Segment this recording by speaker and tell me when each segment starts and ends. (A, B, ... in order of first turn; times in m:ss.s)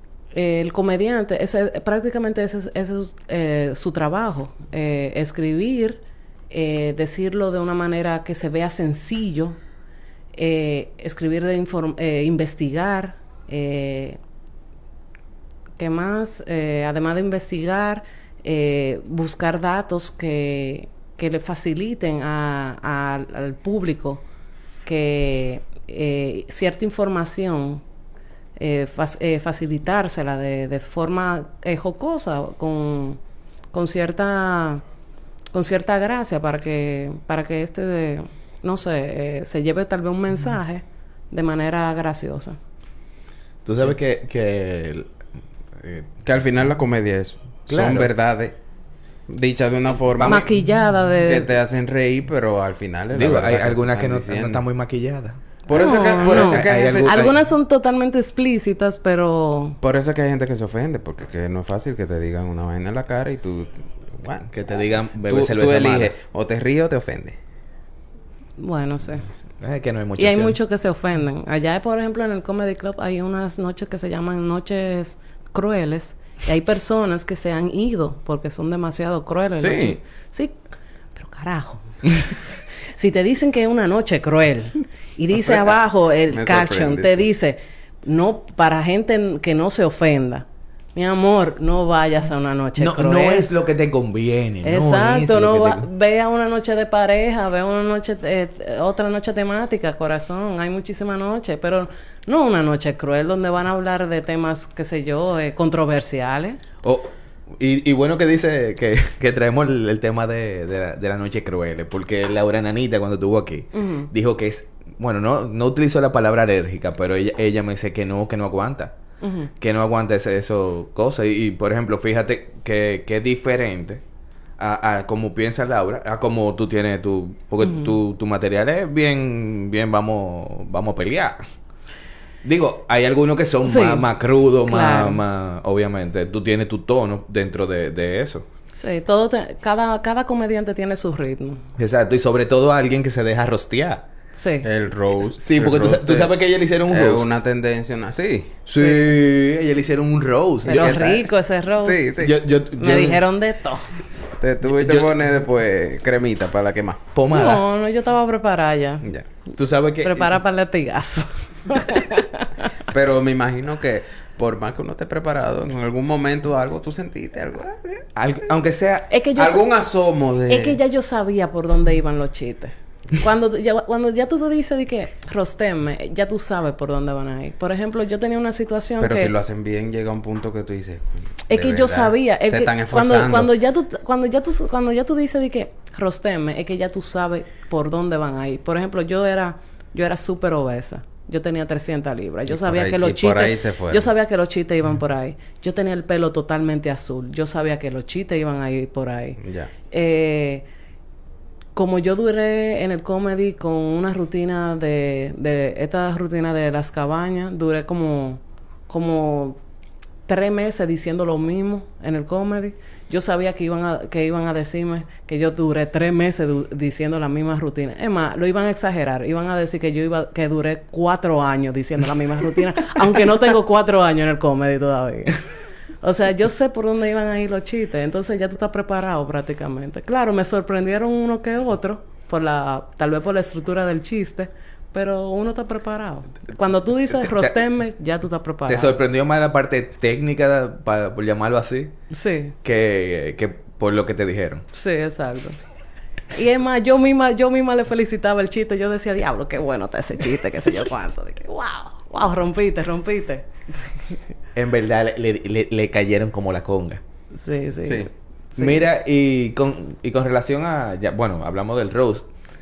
0:00.3-0:09.6 A
0:10.3-0:14.2 A
0:15.8-0:24.2 A
0:24.8-0:27.8 A
0:28.6-0:33.2 A
0:33.7-0:34.8 A
0:35.5-0:42.6 A
0:43.6-0:45.1 B
0:45.8-0:46.1 B
0:46.2-0:48.6 C
0:47.7-0:48.1 B
0:49.3-0:50.5 C
0:50.2-0:50.5 B
0:50.2-0:51.5 A
0:51.2-0:54.6 C
0:53.1-0:55.6 B
0:55.7-0:57.3 C
0:55.7-0:59.8 A
0:56.2-0:57.4 B
0:59.8-1:07.4 C
1:04.5-1:06.1 B
1:08.6-1:09.3 A
1:09.6-1:10.6 B
1:10.2-1:20.5 A
1:19.6-1:20.0 C
1:21.1-1:22.4 A
1:22.9-1:33.5 A
1:25.3-1:25.7 C
1:26.3-1:27.3 C
1:32.8-1:35.9 B
1:34.6-1:46.6 A
1:46.8-1:58.9 B
1:53.7-1:54.1 A
1:59.2-1:59.5 A
1:59.6-2:04.0 B
2:04.6-2:11.4 B
2:07.6-2:07.9 A
2:12.4-2:18.5 B
2:13.6-2:14.1 A
2:14.7-2:15.2 A
2:18.7-2:21.6 A
2:21.8-2:24.0 B
2:24.4-2:24.7 A
2:24.6-2:26.3 C
2:25.4-2:27.3 B
2:26.9-2:28.6 C
2:28.7-2:31.1 B
2:28.8-2:29.1 A
2:30.6-2:31.3 C
2:30.7-2:32.1 A
2:31.8-2:32.4 C
2:32.2-2:33.2 B
2:32.7-2:33.9 A
2:34.4-2:37.0 C
2:34.7-2:35.1 B
2:37.1-2:37.6 B
2:37.3-2:39.1 A
2:39.6-2:40.4 B
2:40.0-2:42.5 A
2:42.9-2:48.0 C
2:48.2-2:49.1 B
2:49.1-2:49.6 A
2:49.4-2:50.8 C
2:50.5-2:59.3 A
2:59.0-3:03.5 C
3:01.5-3:20.6 A
3:12.5-3:14.1 C
3:19.4-3:19.7 C
3:21.7-3:29.6 A
3:30.3-3:45.4 A
3:46.0-3:59.0 A
3:57.2-3:57.5 B
3:58.7-4:02.0 B
4:02.1-4:02.5 A
4:02.6-4:04.6 B
4:04.7-4:05.6 A
4:06.3-4:14.2 A
4:14.6-4:17.0 B
4:17.4-4:18.8 A
4:18.6-4:22.3 B